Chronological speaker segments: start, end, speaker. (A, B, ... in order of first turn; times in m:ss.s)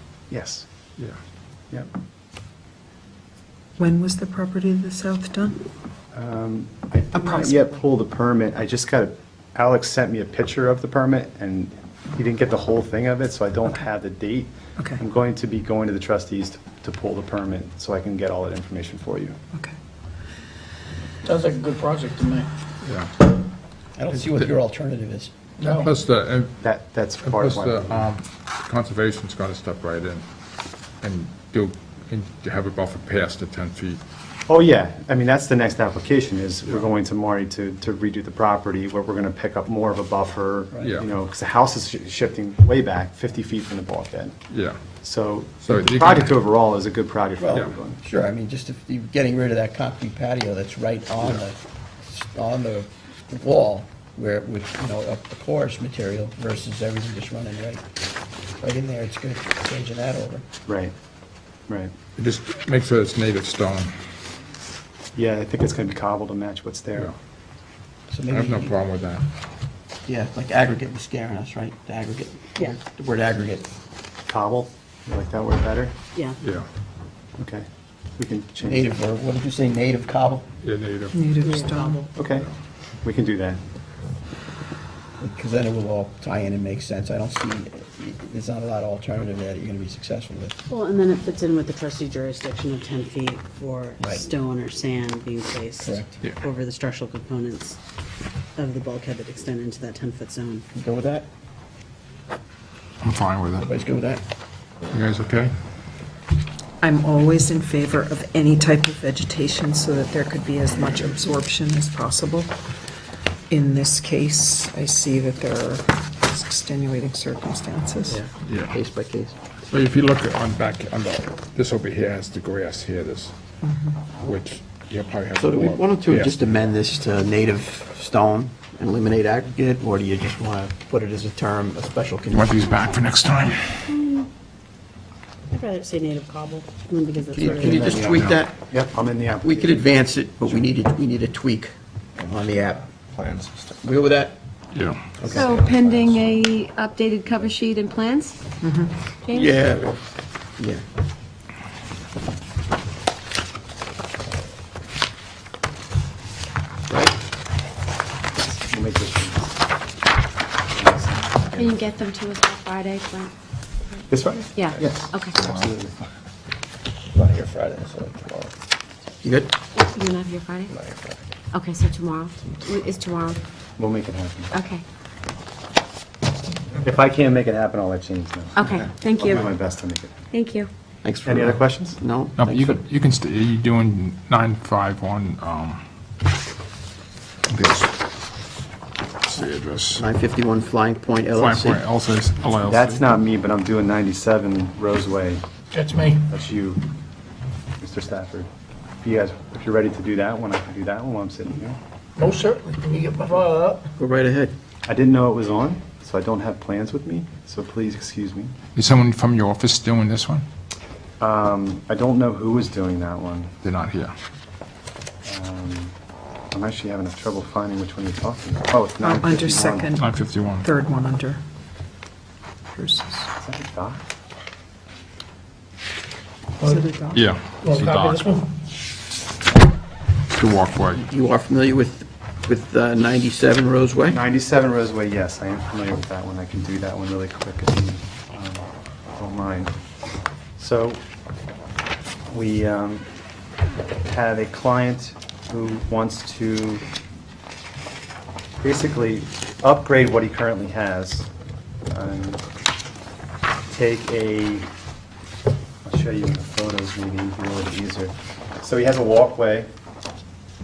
0:00.3-0:00.6 A
0:03.8-0:05.6 B
0:06.1-0:19.4 A
0:07.1-0:07.8 B
0:14.8-0:15.0 B
0:21.2-0:22.5 C
0:22.8-0:23.1 D
0:24.0-0:25.3 E
0:24.2-0:24.5 D
0:25.6-0:25.9 C
0:25.6-0:26.5 D
0:26.6-0:28.1 A
0:27.2-0:30.2 D
0:31.0-0:34.0 D
0:34.5-0:44.4 A
0:40.8-0:41.1 D
0:44.5-0:44.8 D
0:45.0-0:48.0 A
0:45.6-0:46.4 D
0:47.4-0:57.8 E
0:58.6-1:00.4 E
1:00.7-1:00.9 A
1:02.2-1:03.9 D
1:05.2-1:07.1 A
1:08.1-1:08.7 E
1:08.3-1:09.2 D
1:10.0-1:13.7 E
1:14.3-1:15.9 A
1:16.4-1:16.7 D
1:17.4-1:17.6 A
1:18.2-1:18.9 A
1:18.6-1:20.5 E
1:20.6-1:21.2 D
1:21.1-1:22.1 B
1:21.4-1:22.1 F
1:22.1-1:22.5 A
1:23.0-1:23.6 A
1:25.2-1:30.6 E
1:30.7-1:37.8 F
1:34.0-1:34.3 E
1:35.8-1:36.1 E
1:38.6-1:40.6 F
1:40.7-1:41.3 E
1:43.0-1:43.7 D
1:43.6-1:44.2 E
1:44.9-1:45.5 D
1:46.8-1:52.5 B
1:53.5-1:58.2 B
1:58.0-1:59.3 E
1:58.4-1:58.8 D
1:59.7-2:03.3 D
2:03.6-2:04.0 B
2:04.2-2:06.4 D
2:05.4-2:12.8 E
2:12.3-2:14.0 D
2:13.9-2:14.3 F
2:15.5-2:18.1 F
2:17.3-2:18.5 E
2:17.6-2:19.6 A
2:19.4-2:24.4 E
2:24.7-2:25.0 D
2:25.2-2:26.1 E
2:25.3-2:28.4 G
2:28.6-2:28.9 B
2:29.2-2:29.6 G
2:29.3-2:30.0 E
2:38.4-2:39.5 A
2:40.7-2:41.9 A
2:41.5-2:43.3 G
2:44.1-2:45.9 A
2:44.5-2:45.3 G
2:47.1-2:48.5 E
2:49.2-2:49.5 E
2:49.7-2:50.7 G
2:50.7-2:51.2 E
2:51.5-2:53.4 G
2:53.8-2:54.5 A
2:54.5-2:54.8 G
2:56.8-3:00.1 A
2:58.5-2:59.4 G
3:00.3-3:00.7 G
3:01.0-3:02.8 E
3:01.2-3:02.0 A
3:02.4-3:05.8 D
3:07.5-3:07.9 D
3:09.2-3:10.0 D
3:10.0-3:11.8 E
3:11.3-3:13.1 D
3:12.6-3:15.4 A
3:15.7-3:16.3 C
3:16.3-3:16.8 A
3:17.8-3:18.5 A
3:19.0-3:21.8 A
3:22.2-3:23.9 C
3:24.0-3:24.5 E
3:24.9-3:28.5 A
3:28.7-3:30.4 D
3:31.2-3:33.5 A
3:33.6-3:34.1 D
3:35.2-3:35.9 A
3:36.5-3:40.0 A
3:39.0-3:41.4 B
3:40.0-3:40.7 D
3:42.7-3:43.3 B
3:43.4-3:44.0 A
3:46.6-3:47.3 B
3:47.1-3:48.3 D
3:47.6-3:48.5 C
3:50.3-3:51.0 D
3:50.9-3:54.2 E
3:54.1-3:59.7 A
4:00.6-4:01.0 A
4:02.3-4:03.0 A
4:04.0-4:06.8 A
4:08.6-4:11.3 A
4:11.9-4:12.4 A
4:13.7-4:14.7 A
4:15.8-4:19.7 A